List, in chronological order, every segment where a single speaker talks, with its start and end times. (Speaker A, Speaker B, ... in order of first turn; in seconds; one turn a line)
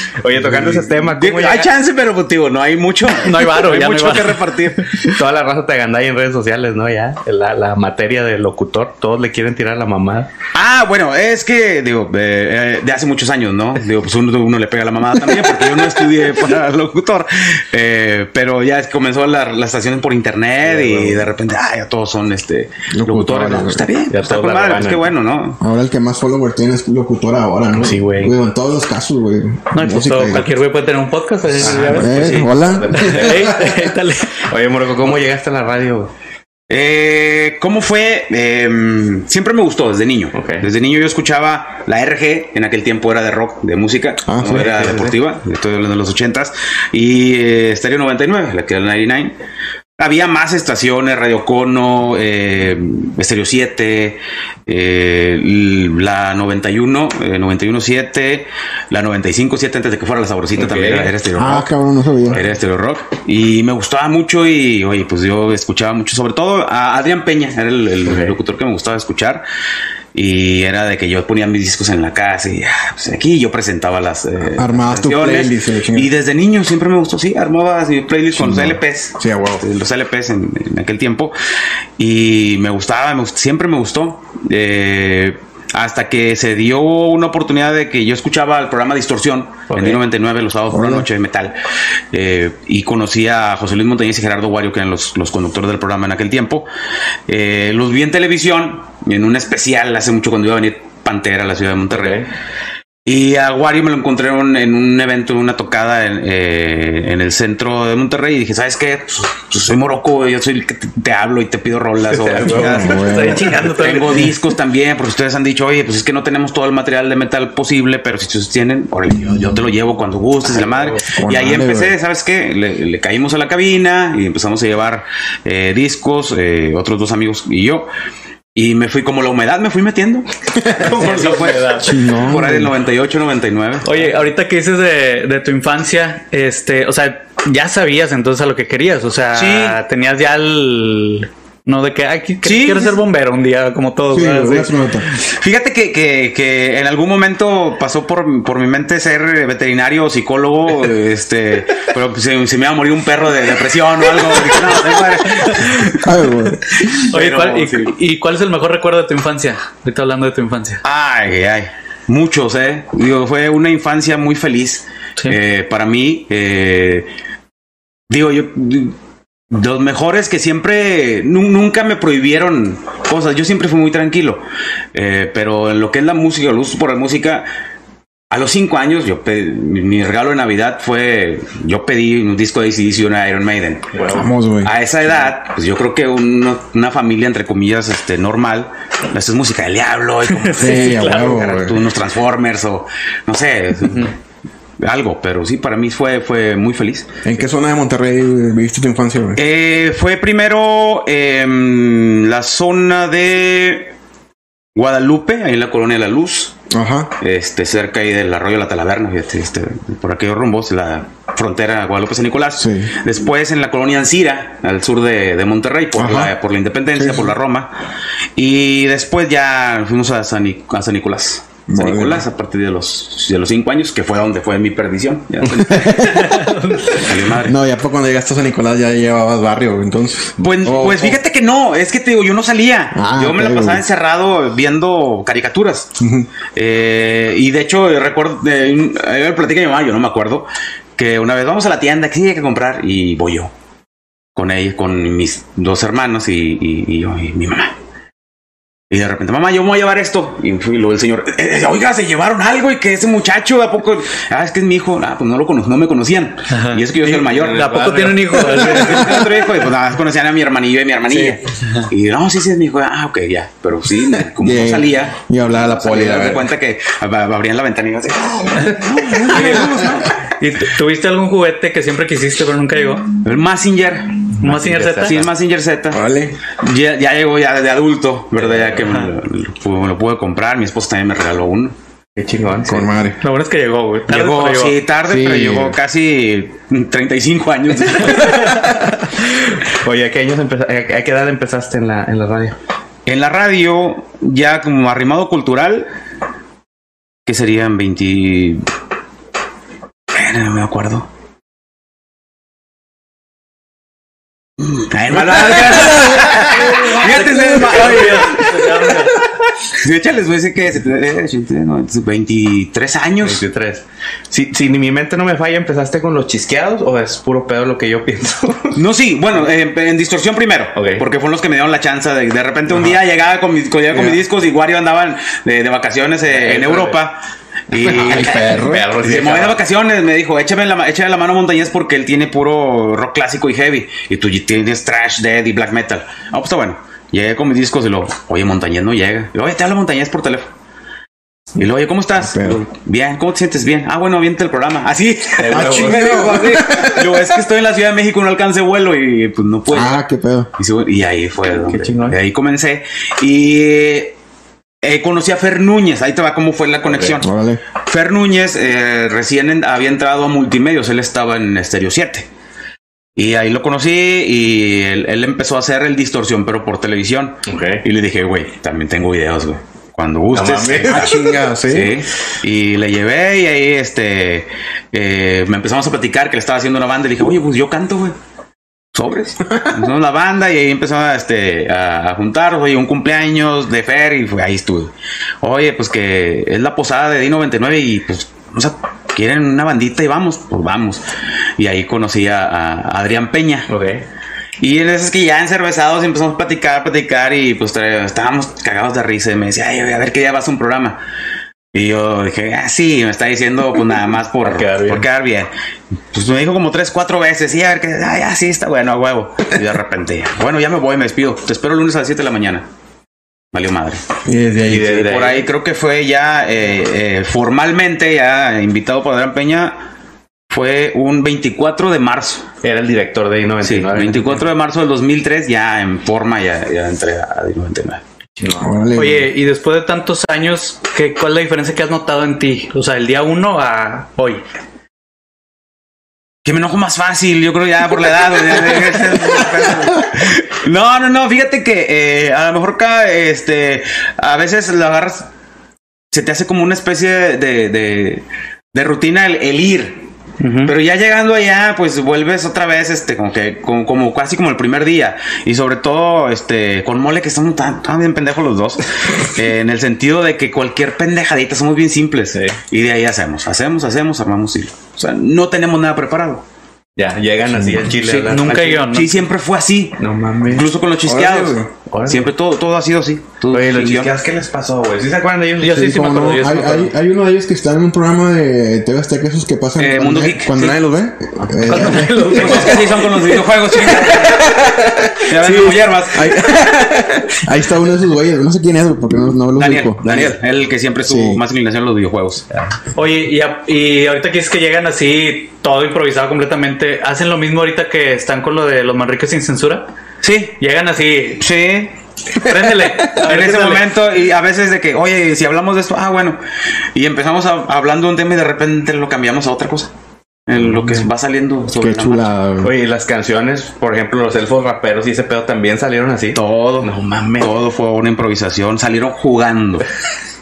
Speaker A: 0.2-1.7
Speaker B: 0.4-0.9
Speaker C: 1.1-5.1
Speaker D: 3.2-4.8
Speaker A: 5.0-10.3
Speaker C: 10.5-25.6
Speaker A: 20.6-21.2
Speaker B: 22.9-23.9
Speaker A: 24.1-25.0
Speaker B: 25.6-30.5
Speaker A: 27.8-28.3
Speaker D: 29.7-34.4
Speaker A: 31.6-33.9
Speaker B: 31.6-33.7
Speaker A: 34.4-36.1
Speaker C: 36.7-49.3
Speaker A: 40.3-40.7
Speaker B: 44.2-44.7
Speaker A: 44.4-45.1
Speaker C: 50.0-61.7
Speaker A: 60.5-61.1
Speaker B: 61.4-62.4
Speaker C: 62.3-69.4
Speaker A: 68.0-68.3
Speaker C: 70.1-81.3
Speaker B: 74.5-76.1
Speaker B: 78.3-79.6
Speaker C: 82.0-91.6
Speaker A: 89.7-90.0
Speaker B: 90.7-91.1
Speaker C: 92.1-96.7
Speaker C: 97.3-102.2
Speaker A: 101.9-102.3
Speaker C: 103.0-127.9
Speaker A: 112.0-113.2
Speaker B: 112.5-113.5
Speaker D: 112.6-114.3
Speaker A: 120.5-121.1
Speaker B: 121.1-121.9
Speaker C: 128.5-133.9
Speaker D: 130.8-132.0
Speaker B: 131.8-132.7
Speaker D: 133.8-145.2
Speaker C: 139.3-139.8
Speaker C: 142.4-143.0
Speaker B: 144.1-145.1
Speaker C: 145.2-156.0
Speaker D: 155.4-156.0
Speaker B: 156.0-157.0
Speaker D: 156.9-160.8
Speaker C: 157.0-157.9
Speaker C: 160.8-167.1
Speaker C: 168.1-168.9
Speaker C: 169.5-174.4
Speaker C: 174.9-177.5
Speaker C: 178.3-184.0
Speaker A: 183.9-184.3
Speaker B: 184.1-184.7
Speaker C: 184.6-194.1
Speaker D: 190.3-191.6
Speaker B: 190.5-191.8
Speaker C: 194.8-197.1
Speaker B: 197.2-199.4
Speaker C: 199.3-203.9
Speaker C: 204.7-206.5
Speaker B: 206.7-207.1
Speaker C: 207.2-217.8
Speaker B: 212.6-212.9
Speaker B: 216.0-216.3
Speaker B: 216.9-217.3
Speaker C: 218.3-226.3
Speaker B: 221.7-222.2
Speaker B: 225.7-226.5
Speaker D: 226.0-226.9
Speaker C: 226.9-227.6
Speaker B: 227.2-231.2
Speaker C: 230.4-235.9
Speaker B: 232.9-233.8
Speaker B: 236.0-236.3
Speaker C: 236.5-243.5
Speaker C: 244.3-247.7
Speaker C: 248.9-270.2
Speaker D: 256.5-259.3
Speaker A: 257.3-258.5
Speaker B: 258.8-259.2
Speaker B: 261.1-261.4
Speaker B: 264.4-266.5
Speaker D: 269.1-269.9
Speaker B: 269.4-269.9
Speaker D: 270.4-273.1
Speaker C: 273.2-274.2
Speaker A: 274.4-275.2
Speaker D: 274.4-275.2
Speaker C: 275.0-281.7
Speaker B: 275.9-276.4
Speaker A: 278.4-278.9
Speaker A: 282.1-282.9
Speaker B: 282.6-283.2
Speaker D: 283.2-284.8
Speaker C: 284.1-288.7
Speaker B: 285.1-285.8
Speaker D: 288.1-288.6
Speaker A: 289.5-292.6
Speaker C: 293.1-295.9
Speaker C: 297.2-298.6
Speaker C: 300.1-301.1
Speaker C: 304.6-313.4
Speaker D: 306.0-309.2
Speaker A: 313.2-318.8
Speaker C: 318.7-340.5
Speaker A: 320.7-321.0
Speaker A: 326.3-327.0
Speaker A: 327.8-329.6
Speaker B: 327.8-328.9
Speaker C: 341.5-350.0
Speaker B: 342.2-342.6
Speaker A: 345.4-346.2
Speaker B: 345.5-347.2
Speaker B: 349.7-350.5
Speaker C: 350.6-354.1
Speaker A: 351.6-352.2
Speaker C: 354.8-362.3
Speaker B: 357.2-357.6
Speaker C: 363.2-378.1
Speaker A: 367.4-367.8
Speaker A: 370.3-371.1
Speaker B: 370.8-372.0
Speaker C: 378.9-391.0
Speaker C: 391.6-393.7
Speaker A: 393.7-394.0
Speaker C: 394.6-401.0
Speaker C: 401.7-405.5
Speaker A: 404.4-405.0
Speaker C: 406.1-412.6
Speaker C: 413.5-414.0
Speaker B: 414.2-414.9
Speaker A: 414.6-415.4
Speaker C: 414.7-419.8
Speaker C: 420.5-422.5
Speaker A: 422.6-424.4
Speaker C: 423.6-428.0
Speaker A: 428.4-428.7
Speaker B: 428.6-429.3
Speaker D: 428.9-434.4
Speaker C: 436.4-445.3
Speaker C: 446.1-450.1
Speaker D: 450.4-450.7
Speaker C: 450.6-466.4
Speaker A: 466.9-468.8
Speaker C: 468.0-474.1
Speaker D: 468.3-469.2
Speaker A: 470.0-470.7
Speaker B: 471.0-471.7
Speaker A: 471.9-472.3
Speaker A: 473.5-475.8
Speaker D: 475.6-476.9
Speaker B: 475.7-482.6
Speaker C: 479.8-480.8
Speaker D: 481.6-484.2
Speaker C: 481.7-484.6
Speaker A: 482.3-483.0
Speaker A: 484.1-485.1
Speaker C: 485.2-486.5
Speaker B: 486.1-490.4
Speaker C: 489.6-492.4
Speaker A: 490.0-490.3
Speaker B: 491.0-491.4
Speaker D: 492.9-499.9
Speaker C: 500.2-500.5
Speaker D: 500.6-501.4
Speaker C: 501.4-501.9
Speaker D: 502.4-503.9
Speaker B: 502.5-503.0
Speaker C: 503.1-506.4
Speaker C: 506.9-509.9
Speaker C: 510.5-512.3
Speaker A: 510.8-511.0
Speaker B: 511.8-512.7
Speaker A: 512.6-517.5
Speaker C: 516.3-519.9